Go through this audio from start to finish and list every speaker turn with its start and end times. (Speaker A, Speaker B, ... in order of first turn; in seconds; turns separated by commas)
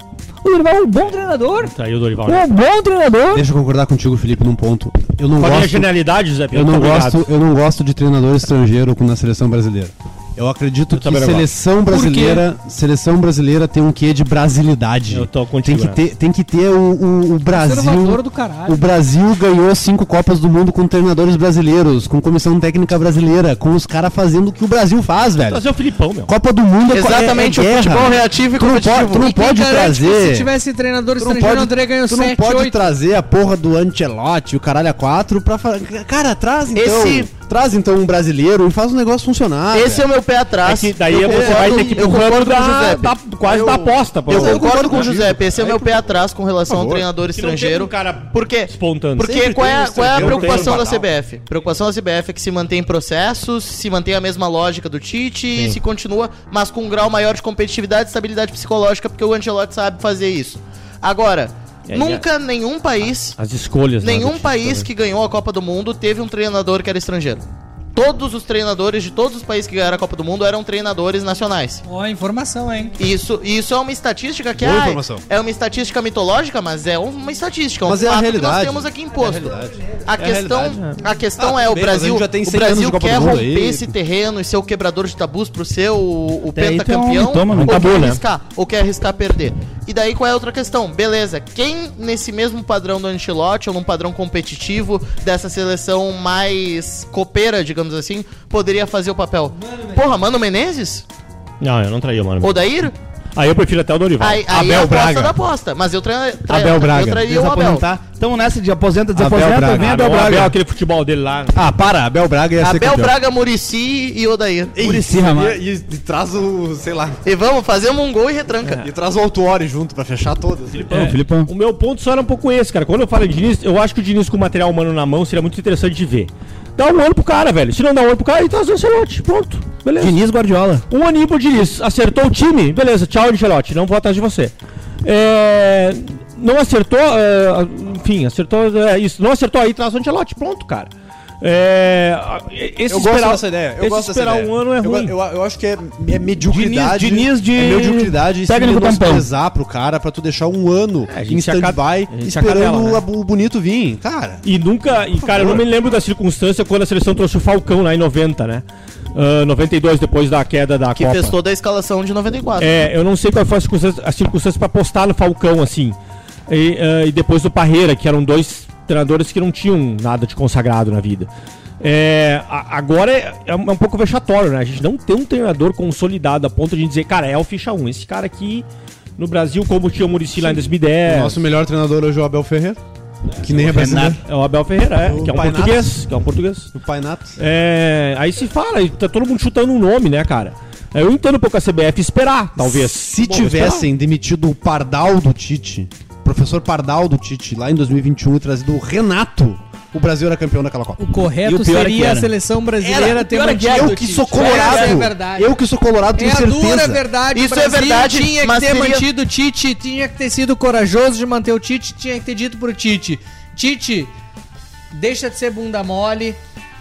Speaker A: 0.4-1.7, Speaker B: 1.6-2.5, Speaker A: 2.2-3.4, Speaker C: 3.3-5.9, Speaker B: 5.4-7.2, Speaker C: 6.5-25.7, Speaker B: 10.9-11.5, Speaker D: 11.9-12.4, Speaker B: 15.1-16.0, Speaker D: 17.5-18.8, Speaker B: 25.4-26.3, Speaker C: 26.3-30.5, Speaker E: 26.9-29.3, Speaker D: 29.2-32.8, Speaker C: 31.2-40.0, Speaker E: 36.7-37.3, Speaker E: 39.7-63.4, Speaker B: 40.6-45.2, Speaker C: 41.1-42.2, Speaker C: 43.5-45.9, Speaker C: 46.7-47.1, Speaker B: 47.3-51.0, Speaker C: 49.9-50.9, Speaker B: 55.5-55.8, Speaker B: 61.9-62.2, Speaker B: 63.4-64.9, Speaker E: 64.0-67.4, Speaker E: 67.9-71.8, Speaker D: 71.8-72.9, Speaker E: 73.0-79.5, Speaker C: 74.5-75.2, Speaker C: 77.8-80.8, Speaker E: 80.0-101.0, Speaker C: 81.4-83.9, Speaker F: 86.5-88.2, Speaker B: 87.6-88.2, Speaker B: 101.6-102.6, Speaker E: 102.4-102.9, Speaker B: 103.3-104.9, Speaker E: 104.2-107.8, Speaker C: 104.6-105.3, Speaker C: 106.5-107.2, Speaker F: 107.2-110.5, Speaker C: 109.1-110.5, Speaker B: 109.6-111.7, Speaker C: 111.5-113.2, Speaker E: 112.6-114.8, Speaker C: 114.7-117.2, Speaker F: 114.8-115.6, Speaker E: 117.2-118.8, Speaker C: 118.8-120.9, Speaker B: 120.7-130.2, Speaker F: 120.9-121.5, Speaker F: 130.0-130.8, Speaker B: 130.9-145.1, Speaker C: 142.9-154.4, Speaker F: 146.4-149.3, Speaker B: 151.1-153.0, Speaker B: 154.4-161.3, Speaker C: 155.2-155.7, Speaker E: 160.9-162.8, Speaker B: 162.6-166.0, Speaker B: 166.5-178.7, Speaker B: 179.2-181.4, Speaker C: 180.5-182.8, Speaker C: 183.4-184.2, Speaker B: 183.5-186.7, Speaker F: 183.5-184.2, Speaker C: 184.9-186.0, Speaker C: 186.7-187.4, Speaker B: 187.4-193.9, Speaker C: 192.6-201.0, Speaker D: 201.0-205.5, Speaker F: 201.4-205.0, Speaker C: 203.6-207.0, Speaker D: 206.1-214.1, Speaker E: 207.3-209.1, Speaker D: 214.9-216.4